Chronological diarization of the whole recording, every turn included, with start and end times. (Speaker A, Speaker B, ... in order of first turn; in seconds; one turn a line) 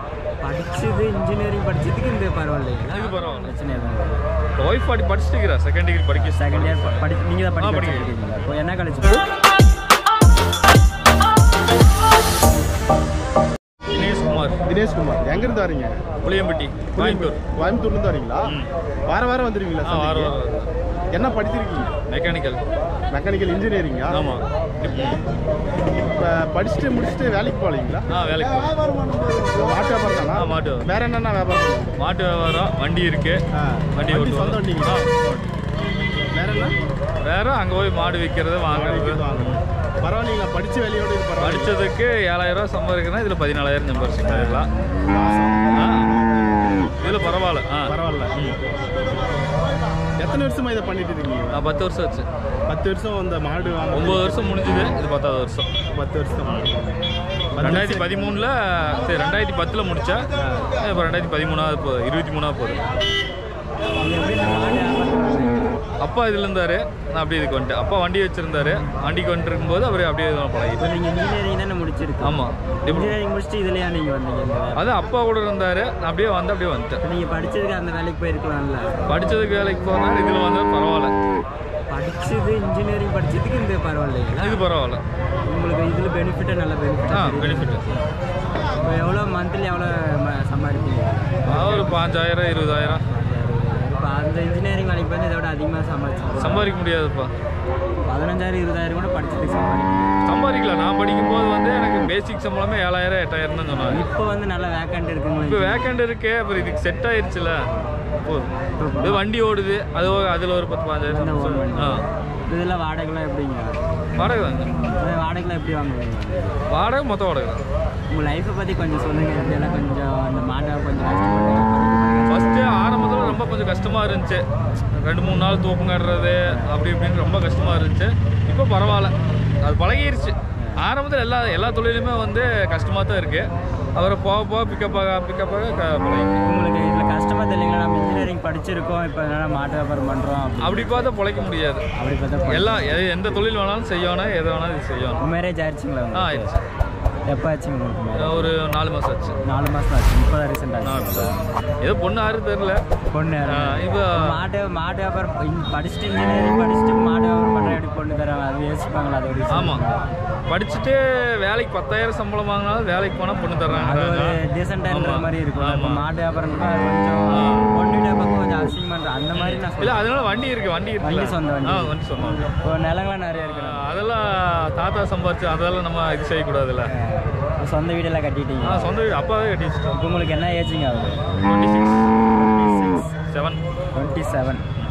Speaker A: 0.4-4.2
Speaker B: 2.9-3.5
Speaker B: 4.6-8.1
Speaker A: 6.1-9.2
Speaker B: 13.9-14.6
Speaker C: 14.7-16.1
Speaker B: 16.2-17.4
Speaker C: 16.9-18.6
Speaker C: 19.1-20.4
Speaker B: 19.8-20.7
Speaker C: 21.1-21.9
Speaker B: 22.1-22.6
Speaker C: 23.1-24.2
Speaker B: 24.1-25.2
Speaker C: 26.2-28.1
Speaker B: 28.1-28.9
Speaker C: 29.1-32.0
Speaker B: 30.3-30.9
Speaker B: 32.0-33.4
Speaker C: 33.5-35.0
Speaker B: 34.0-35.5
Speaker C: 36.3-36.8
Speaker B: 37.2-39.6
Speaker C: 38.7-41.7
Speaker B: 41.4-44.7
Speaker C: 44.3-46.1
Speaker B: 45.7-46.1
Speaker C: 46.8-47.2
Speaker B: 47.0-48.6
Speaker C: 47.9-48.5
Speaker C: 50.2-51.8
Speaker B: 51.5-52.3
Speaker C: 52.7-54.6
Speaker B: 53.9-55.7
Speaker C: 55.9-56.8
Speaker C: 57.5-58.2
Speaker B: 57.6-62.8
Speaker A: 64.0-65.8
Speaker B: 66.0-71.0
Speaker A: 70.8-74.9
Speaker B: 72.2-73.2
Speaker B: 74.8-77.0
Speaker A: 77.0-79.0
Speaker B: 79.1-81.1
Speaker A: 81.9-84.6
Speaker B: 84.4-85.0
Speaker A: 85.5-88.0
Speaker B: 87.1-87.8
Speaker A: 88.8-92.0
Speaker B: 91.5-93.0
Speaker A: 93.0-96.7
Speaker B: 96.4-97.3
Speaker A: 98.0-100.2
Speaker B: 100.2-104.1
Speaker A: 103.8-106.0
Speaker B: 105.4-107.7
Speaker B: 108.2-108.5
Speaker A: 108.8-109.2
Speaker B: 109.0-112.0
Speaker A: 111.1-113.8
Speaker B: 114.2-114.8
Speaker A: 115.0-116.6
Speaker B: 116.7-117.6
Speaker A: 118.1-122.8
Speaker B: 122.3-136.4
Speaker A: 126.5-126.7
Speaker A: 136.4-141.1
Speaker B: 140.6-141.8
Speaker A: 141.9-143.0
Speaker B: 142.5-145.2
Speaker A: 145.2-146.5
Speaker B: 146.1-146.6
Speaker A: 147.3-148.5
Speaker B: 148.2-149.4
Speaker A: 149.4-151.4
Speaker B: 150.8-152.8
Speaker A: 153.1-160.1
Speaker B: 153.5-154.4
Speaker B: 159.5-159.8
Speaker B: 160.5-166.1
Speaker A: 163.7-170.1
Speaker B: 167.3-167.7
Speaker B: 169.3-172.5
Speaker A: 171.0-173.9
Speaker B: 173.4-176.9
Speaker A: 176.9-178.9
Speaker B: 178.6-180.0
Speaker A: 179.9-181.3
Speaker B: 181.4-182.1
Speaker A: 182.3-183.2
Speaker B: 183.3-183.6
Speaker A: 183.9-184.7